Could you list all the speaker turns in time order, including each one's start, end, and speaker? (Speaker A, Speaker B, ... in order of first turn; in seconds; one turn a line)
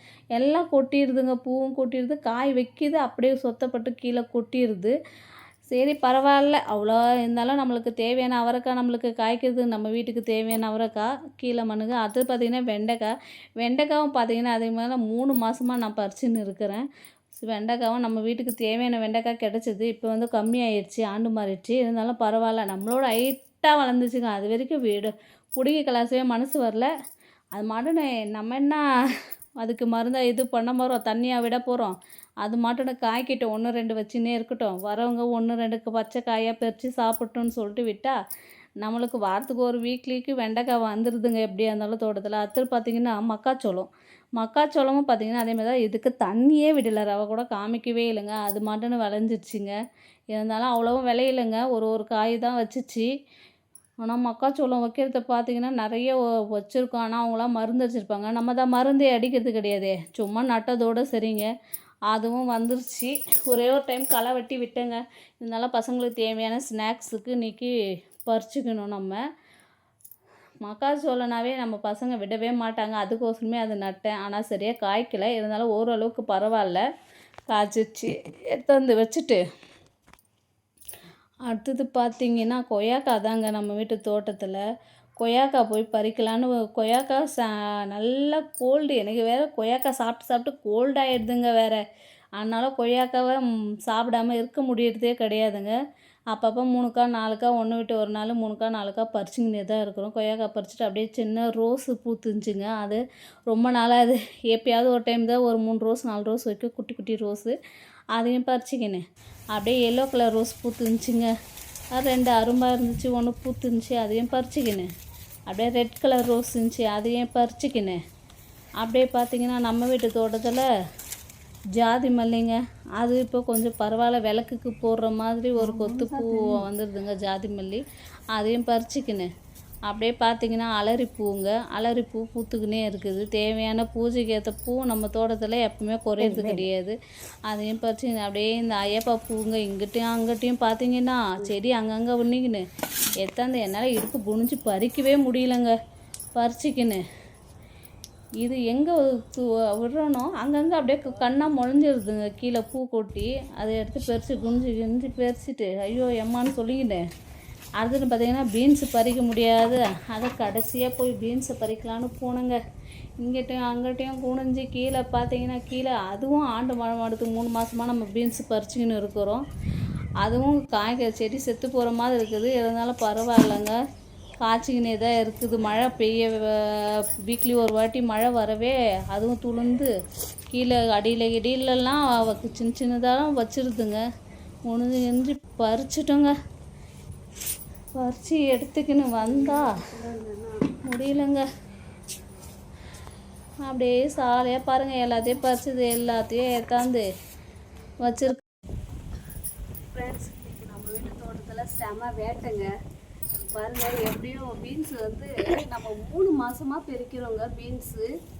Speaker A: 0.3-4.9
Speaker A: 5.7-26.9
Speaker A: 27.6-28.8
Speaker A: 29.6-38.1
Speaker A: 38.8-49.8
Speaker A: 50.3-53.1
Speaker A: 54.0-61.5
Speaker A: 62.1-67.7
Speaker A: 68.2-69.2
Speaker A: 70.6-76.8
Speaker A: 77.5-79.4
Speaker A: 81.5-84.6
Speaker A: 85.2-91.8
Speaker A: 92.4-95.8
Speaker A: 96.3-107.5
Speaker A: 108.1-109.0
Speaker A: 109.5-111.3
Speaker A: 111.9-114.9
Speaker A: 115.5-118.0
Speaker A: 118.8-120.7
Speaker A: 121.8-127.8
Speaker B: 125.6-126.5
Speaker A: 128.3-129.3
Speaker A: 129.9-136.9
Speaker B: 136.2-136.6
Speaker A: 137.5-142.6
Speaker A: 143.2-145.7
Speaker A: 146.3-147.0
Speaker A: 148.4-157.0
Speaker A: 157.8-162.6
Speaker A: 163.2-169.4
Speaker A: 170.2-173.8
Speaker A: 174.4-179.9
Speaker A: 180.5-184.0
Speaker A: 184.7-186.3
Speaker A: 187.9-189.7
Speaker B: 189.2-190.6
Speaker A: 190.8-191.4
Speaker A: 193.7-197.0
Speaker A: 198.0-198.4
Speaker B: 199.9-202.7
Speaker B: 203.5-208.1